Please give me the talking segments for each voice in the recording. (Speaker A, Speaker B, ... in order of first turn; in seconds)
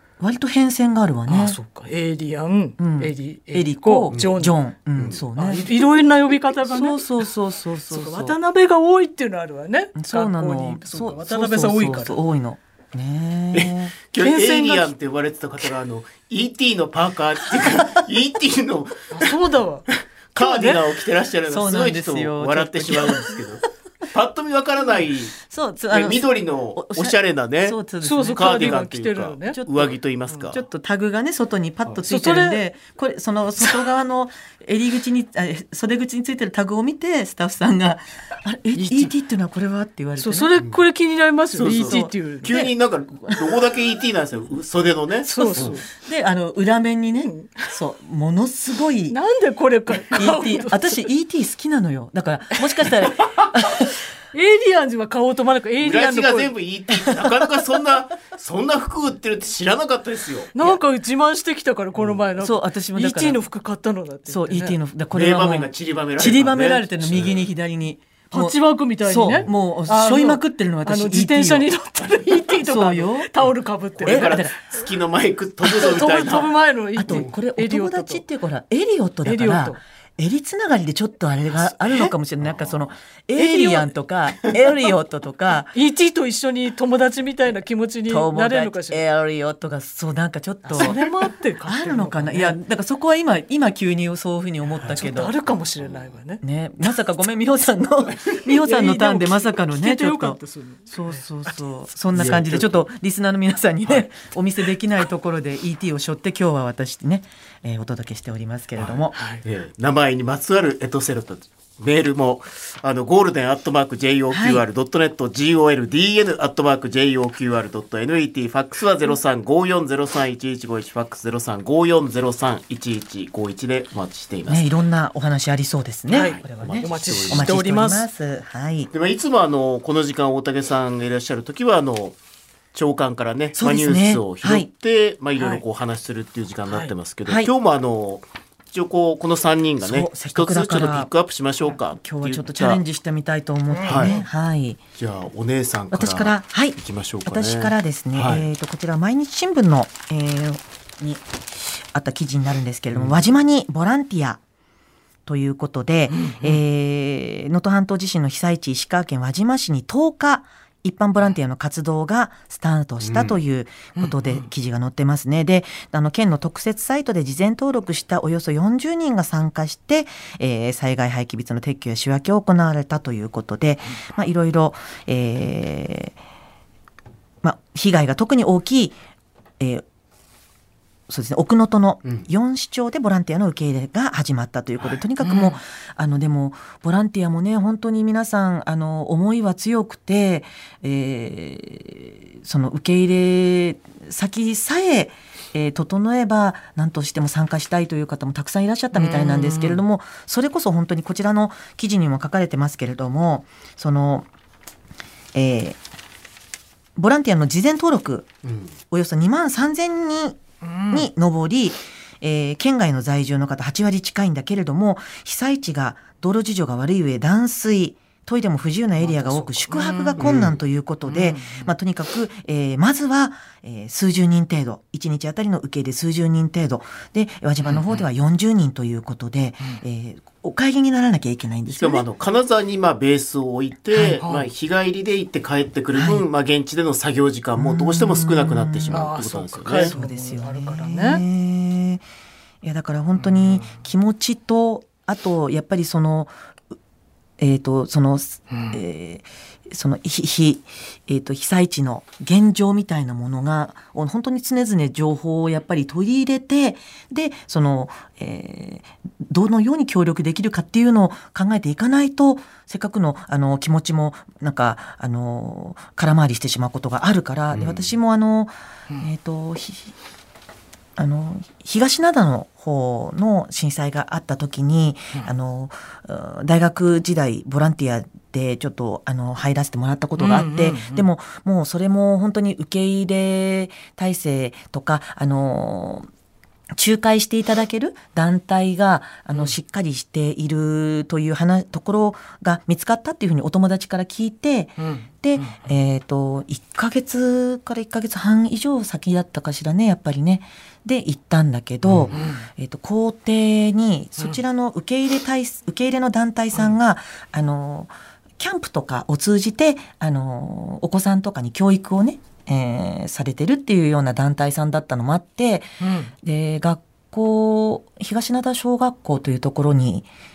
Speaker A: 0.2-1.6, 2.8-5.7, 6.7-8.4, 9.9-13.9, 17.6-17.9, 21.5-23.6, 25.5-28.8, 29.5-29.9, 30.5-40.5, 41.6-42.7, 43.2-43.6, 45.4-49.2, 50.1-53.9, 62.4-63.4, 64.3-71.7, 72.3-73.3, 74.0-74.5, 77.0-85.7, 88.1-91.0, 91.7-95.3, 96.4-109.1, 114.3-114.6, 124.5-128.9, 133.6-134.7, 137.2-137.5, 139.8-141.1, 142.0-144.8, 145.9-154.4, 155.2-176.2, 177.4-179.0, 179.6-179.8, 181.1-204.3, 205.3-205.8, 206.9-208.3, 208.9-232.1, 233.9-234.2, 235.9-236.2, 237.6-239.1, 239.7-242.0, 242.6-246.3, 247.4-269.9, 271.0-286.1, 286.7-315.7, 316.2-320.1
Speaker B: 1.3-4.5, 5.3-7.1, 7.9-12.2, 14.2-14.9, 19.1-20.8, 28.0-29.6, 32.1-32.6, 38.7-39.1, 40.2-42.6, 45.2-45.8, 47.2-47.7, 49.1-51.1, 53.7-56.5, 60.5-64.8, 68.3-74.3, 75.6-78.2, 79.2-79.8, 81.5-82.1, 83.3-83.9, 85.7-89.0, 90.6-92.6, 94.8-96.4, 98.6-101.2, 109.1-109.4, 126.1-128.1, 135.3-135.6, 143.7-144.3, 156.1-156.6, 163.9-164.5, 185.2-185.6, 198.9-199.8, 210.6-211.1, 219.0-220.3, 221.0-221.7, 227.6-228.0, 234.2-234.4, 238.9-241.2, 243.2-243.8, 248.5-248.8, 280.2-281.1, 294.8-295.6, 302.1-302.5, 315.8-316.1
Speaker C: 13.5-19.4, 20.3-27.8, 28.3-30.6, 41.6-45.8, 55.8-60.6, 62.0-62.2, 65.1-67.5, 74.0-76.5, 77.1-77.3, 82.5-82.8, 102.1-102.8, 109.4-124.7, 126.2-127.5, 128.9-132.2, 132.7-142.8, 143.8-144.2, 145.0-148.5, 152.9-153.2, 163.0-163.3, 208.4-208.7, 220.2-220.6, 231.7-239.9, 267.5-267.9, 301.8-302.1